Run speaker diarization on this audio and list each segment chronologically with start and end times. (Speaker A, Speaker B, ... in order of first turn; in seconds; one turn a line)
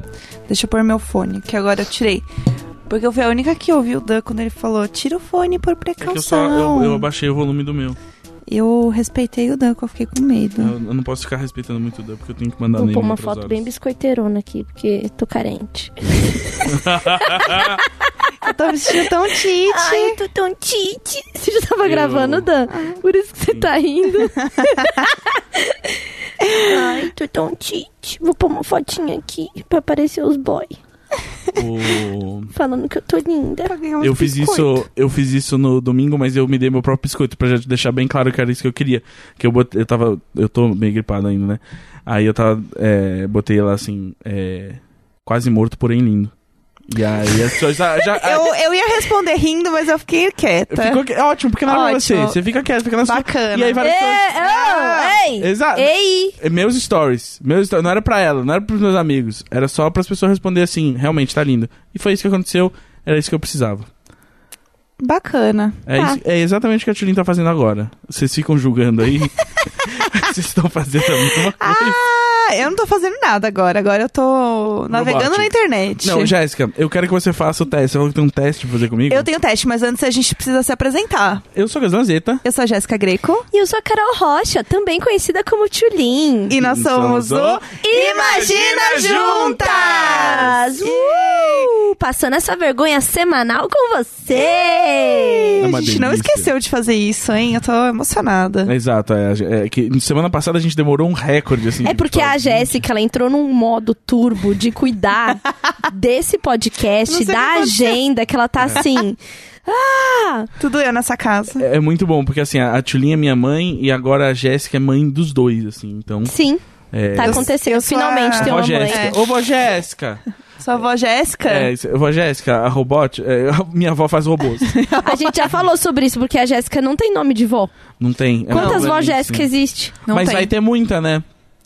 Speaker A: 0.5-2.2
Speaker A: 2.9-7.1
Speaker B: 6.0-8.0
Speaker A: 8.5-10.7
Speaker B: 10.6-13.6
Speaker C: 12.7-18.3
Speaker B: 16.6-17.8
Speaker A: 18.4-20.2
Speaker C: 19.7-26.0
Speaker B: 21.8-22.5
Speaker A: 26.4-27.0
Speaker C: 26.5-30.8
Speaker B: 31.5-32.5
Speaker C: 32.5-33.8
Speaker A: 33.7-34.8
Speaker B: 34.0-46.3
Speaker B: 46.9-48.5
Speaker A: 48.1-51.0
Speaker B: 50.7-54.2
Speaker A: 51.6-52.4
Speaker A: 53.0-53.8
Speaker C: 53.8-56.4
Speaker A: 54.4-55.2
Speaker B: 55.4-63.9
Speaker A: 65.0-65.8
Speaker B: 65.9-72.0
Speaker A: 71.6-76.3
Speaker B: 74.9-79.3
Speaker A: 79.1-81.5
Speaker B: 81.5-82.4
Speaker A: 82.4-83.5
Speaker C: 83.5-86.5
Speaker A: 86.5-91.8
Speaker B: 86.5-90.5
Speaker C: 87.8-95.6
Speaker A: 94.3-98.7
Speaker B: 95.6-96.5
Speaker B: 98.7-102.8
Speaker C: 101.8-110.5
Speaker A: 107.1-108.0
Speaker A: 110.6-111.6
Speaker B: 111.6-116.3
Speaker C: 116.2-116.6
Speaker B: 116.9-117.5
Speaker C: 117.2-119.1
Speaker A: 117.2-119.2
Speaker B: 118.3-120.2
Speaker A: 120.6-121.7
Speaker B: 121.5-124.7
Speaker A: 124.7-125.5
Speaker C: 125.0-127.7
Speaker B: 128.0-129.5
Speaker C: 128.5-129.9
Speaker A: 128.5-128.9
Speaker A: 130.1-130.5
Speaker B: 130.1-131.2